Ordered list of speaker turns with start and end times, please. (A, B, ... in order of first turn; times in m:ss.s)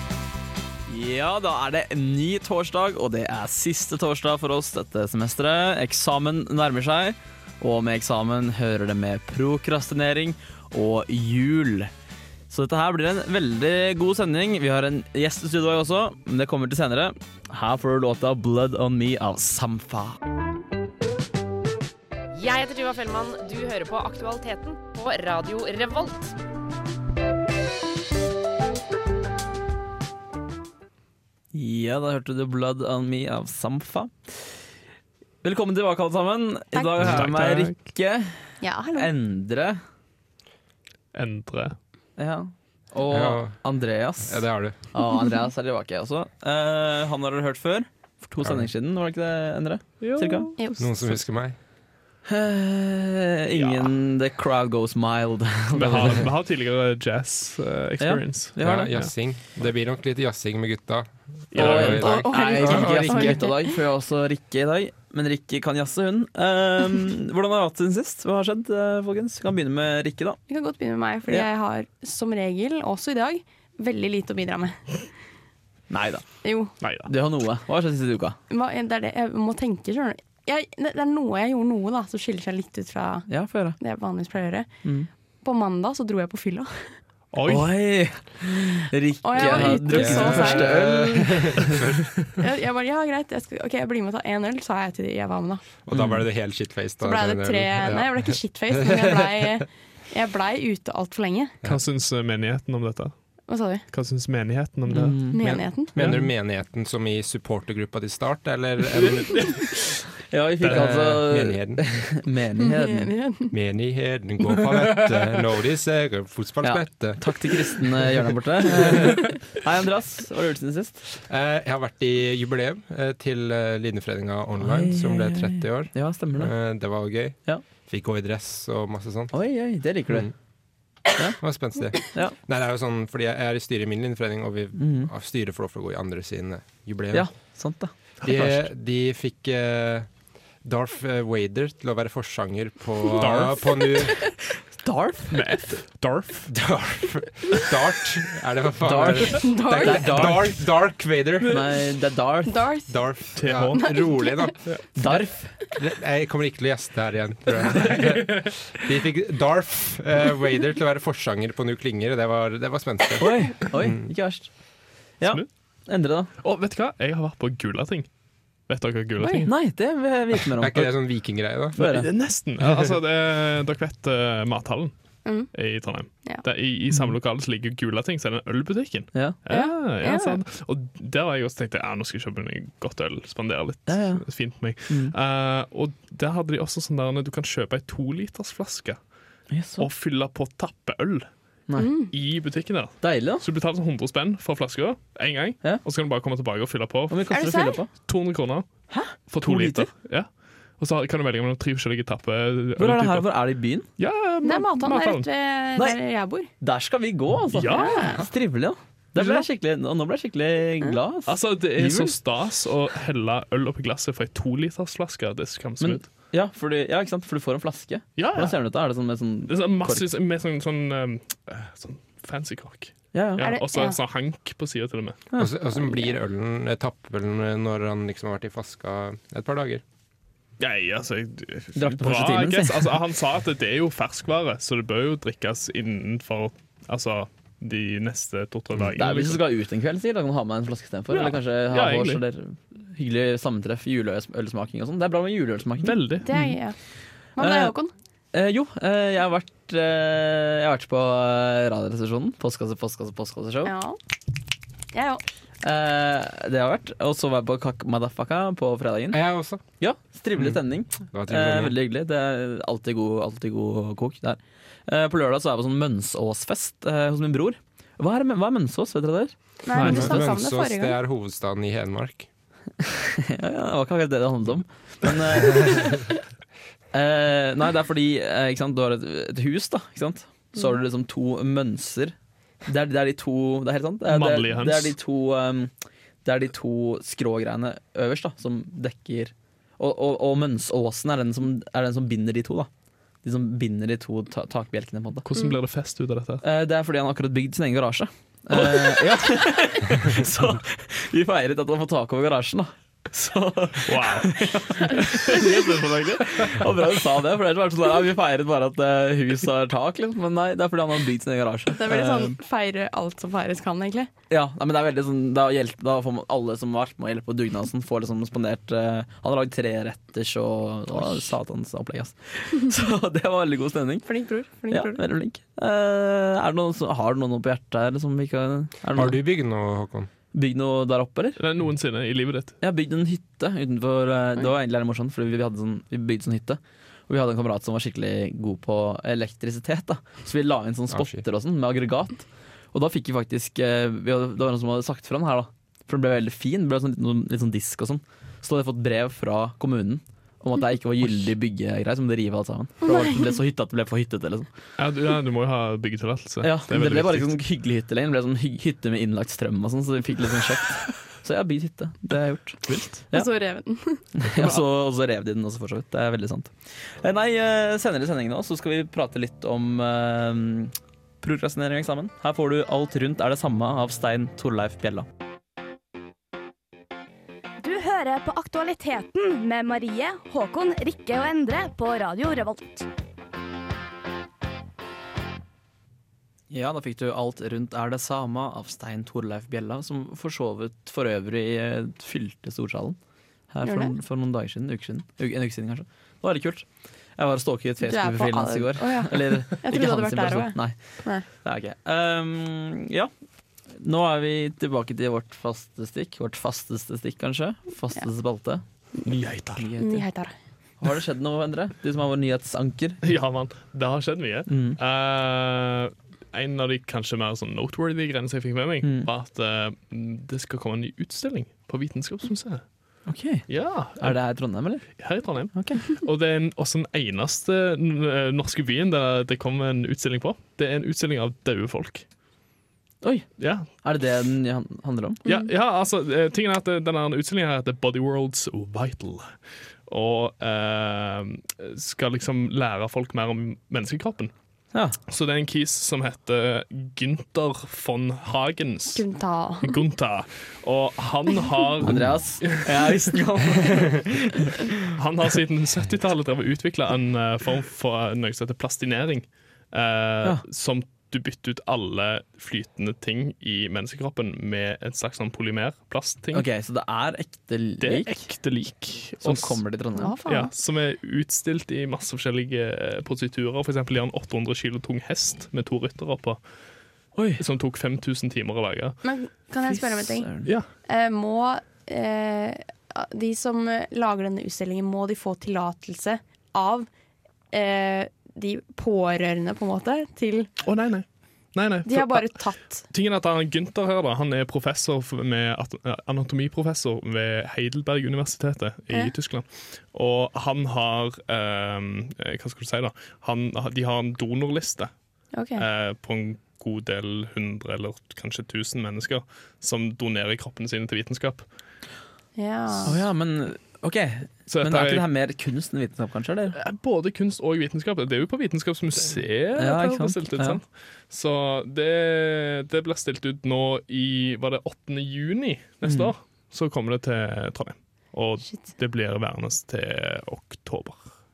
0:00.9-0:11.9 A
0:12.5-0:20.2 A
0:22.3-0:26.3 B
0:31.5-0:34.5 A
0:35.4-0:39.8 A
0:36.7-0:37.1 C
0:37.0-0:37.8 D
0:38.6-0:39.1 C
0:41.1-0:41.8 D
0:42.2-0:50.5 A
0:43.1-0:43.6 E
0:44.2-0:44.8 E
0:45.1-0:45.4 C
0:48.4-0:48.7 E
0:50.0-0:50.5 D
0:50.6-0:50.9 C
0:50.8-0:51.6 E
0:52.3-0:56.2 A
0:53.6-0:53.9 D
0:55.7-0:59.1 D
0:58.0-0:58.9 A
0:58.6-1:03.4 E
1:01.5-1:02.2 D
1:01.5-1:10.4 A
1:02.0-1:03.8 C
1:10.5-1:15.1 C
1:15.9-1:18.4 A
1:16.4-1:16.7 C
1:16.8-1:17.1 D
1:18.5-1:24.8 C
1:23.3-1:23.8 A
1:25.4-1:27.0 C
1:27.3-1:27.9 D
1:27.4-1:31.8 A
1:29.2-1:31.2 C
1:29.7-1:32.2 E
1:32.4-1:35.6 C
1:35.8-1:39.5 E
1:37.0-1:41.6 C
1:41.6-1:43.1 D
1:43.5-1:43.8 C
1:43.9-1:45.2 D
1:44.9-1:45.4 A
1:45.3-1:46.0 C
1:45.4-1:49.7 E
1:46.0-1:46.3 D
1:50.3-1:53.1 A
1:50.6-1:51.2 D
1:50.6-1:52.1 E
1:52.6-1:53.5 C
1:53.5-1:57.8 E
1:56.6-2:01.0 A
2:01.2-2:09.3 E
2:04.6-2:06.5 A
2:09.3-2:10.3 A
2:10.1-2:10.3 E
2:11.4-2:17.3 E
2:14.8-2:15.1 A
2:17.1-2:17.9 A
2:18.2-2:20.1 E
2:18.2-2:18.6 D
2:20.6-2:24.3 E
2:23.2-2:23.9 D
2:24.8-2:25.4 A
2:25.3-2:26.5 D
2:26.5-2:31.6 E
2:28.8-2:30.6 A
2:29.4-2:30.3 C
2:31.4-2:32.7 A
2:32.5-2:33.0 C
2:32.9-2:35.1 E
2:33.4-2:34.0 D
2:33.8-2:34.5 C
2:35.0-2:35.6 A
2:35.8-2:44.1 E
2:37.9-2:38.5 D
2:43.2-2:44.5 A
2:45.2-2:46.3 A
2:46.4-2:48.1 D
2:48.7-2:49.5 D
2:49.2-2:49.5 C
2:49.4-2:50.9 A
2:50.6-2:51.8 E
2:51.7-2:52.1 A
2:51.8-2:54.9 D
2:55.2-2:55.5 C
2:55.5-3:09.0 D
2:59.1-2:59.4 A
2:59.5-3:00.4 C
3:03.9-3:04.3 A
3:04.8-3:05.1 A
3:09.5-3:09.9 A
3:09.8-3:11.3 D
3:11.8-3:12.1 C
3:12.1-3:17.2 D
3:13.0-3:13.4 A
3:17.1-3:17.9 A
3:17.3-3:17.8 C
3:18.0-3:18.7 D
3:18.9-3:19.9 A
3:19.3-3:23.3 D
3:22.8-3:23.9 A
3:24.0-3:25.3 D
3:24.4-3:26.5 C
3:26.6-3:32.2 A
3:27.5-3:28.2 D
3:27.7-3:28.2 C
3:29.2-3:29.4 D
3:31.2-3:36.0 D
3:35.8-3:40.0 A
3:38.2-3:38.6 D
3:39.5-3:45.2 D
3:43.1-3:43.4 A
3:43.4-3:44.0 C
3:45.4-3:49.8 E
3:45.7-3:46.2 C
3:50.6-3:59.4 D
3:51.8-3:52.9 A
3:58.9-4:06.5 A
4:01.1-4:02.2 D
4:05.8-4:06.3 D
4:06.2-4:06.8 C
4:07.4-4:07.9 C
4:07.4-4:07.7 A
4:08.3-4:13.7 A
4:13.6-4:14.0 C
4:14.9-4:15.2 C
4:15.6-4:19.2 A
4:19.1-4:19.6 E
4:19.8-4:29.3 A
4:20.3-4:21.8 E
4:29.6-4:31.0 C
4:29.7-4:30.2 D
4:29.8-4:32.3 E
4:32.8-4:35.9 A
4:36.9-4:45.7 A
4:44.1-4:45.0 D
4:46.2-4:52.7 A
4:53.2-4:55.2 A
4:55.2-4:56.4 D
4:56.4-5:12.3 A
4:58.5-4:59.3 D
5:03.8-5:05.0 D
5:11.7-5:14.1 C
5:14.3-5:24.0 A
5:24.0-5:25.0 C
5:24.7-5:29.2 A
5:28.9-5:30.1 E
5:30.3-5:31.4 A
5:31.4-5:32.6 D
5:32.6-5:54.5 A
5:40.9-5:41.2 E
5:54.8-5:57.3 D
5:56.4-6:03.3 A
6:02.7-6:03.0 D
6:03.1-6:04.0 C
6:04.1-6:15.1 A
6:17.6-6:22.8 F
6:26.5-6:33.0 A
6:33.5-6:36.6 A
6:33.6-6:33.9 C
6:37.2-6:43.1 A
6:37.8-6:41.2 C
6:43.7-6:48.6 A
6:49.0-6:49.6 D
6:49.5-6:50.0 A
6:49.8-6:50.3 C
6:50.8-6:53.0 A
6:53.0-7:04.2 D
6:54.5-6:54.8 A
6:58.8-6:59.1 A
7:03.0-7:05.8 A
7:05.0-7:12.0 D
7:13.0-7:15.2 A
7:13.4-7:13.7 D
7:15.2-7:24.3 D
7:25.1-7:29.0 D
7:28.9-7:29.8 C
7:29.6-7:32.7 D
7:31.9-7:34.7 A
7:34.9-7:46.5 D
7:46.3-7:48.2 A
7:47.8-7:49.6 D
7:49.2-7:50.1 A
7:49.9-7:50.5 C
7:50.2-7:56.4 D
7:57.2-7:57.4 A
7:57.4-7:59.0 D
7:59.0-8:00.3 C
7:59.7-8:00.5 A
8:00.8-8:06.9 C
8:07.5-8:10.5 C
8:10.6-8:24.9 D
8:11.8-8:12.8 C
8:25.3-8:25.6 C
8:25.5-8:31.5 D
8:32.4-8:33.0 C
8:32.8-8:36.6 A
8:34.5-8:35.0 D
8:36.5-8:51.1 D
8:39.6-8:40.6 A
8:45.8-8:46.1 A